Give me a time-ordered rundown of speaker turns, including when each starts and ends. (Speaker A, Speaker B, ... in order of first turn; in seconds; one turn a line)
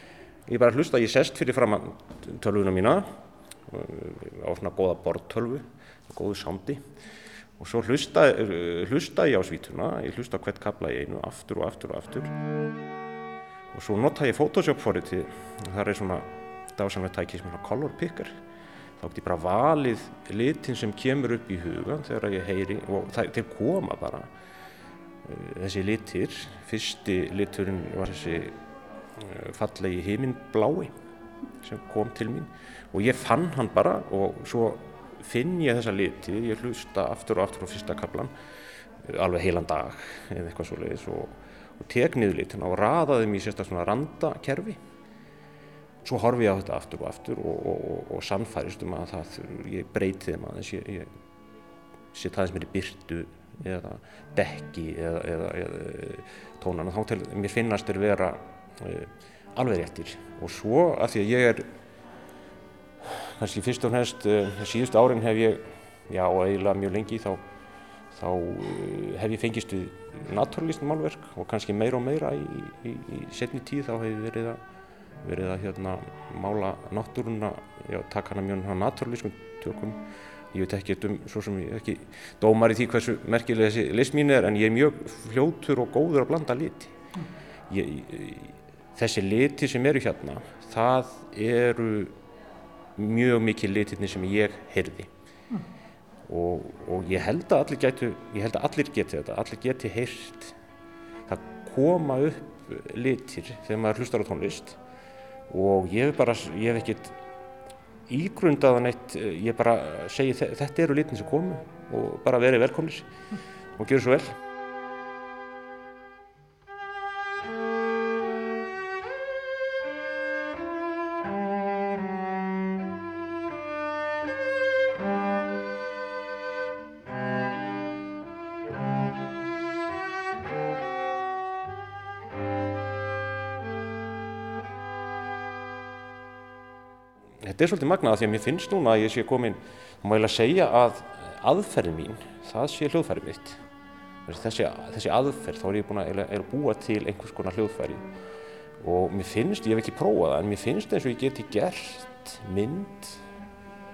Speaker A: 0.5-3.0
Speaker A: 3.7-6.8
Speaker A: 7.6-12.3
Speaker A: 13.7-18.3
Speaker A: 19.0-24.3
Speaker A: 25.2-28.6
Speaker A: 29.1-30.9
Speaker A: 31.6-38.3
Speaker A: 39.0-44.8
Speaker A: 46.0-51.1
Speaker A: 52.1-61.7
Speaker A: 63.0-67.4
Speaker A: 68.1-74.6
Speaker A: 75.2-80.0
Speaker A: 80.5-87.0
Speaker A: 87.7-92.1
Speaker A: 93.0-95.1
Speaker A: 96.2-100.5
Speaker A: 101.3-104.8
Speaker A: 105.5-107.2
Speaker A: 108.1-113.1
Speaker A: 113.7-114.3
Speaker A: 137.4-143.6
Speaker A: 144.2-148.0
Speaker A: 148.8-153.2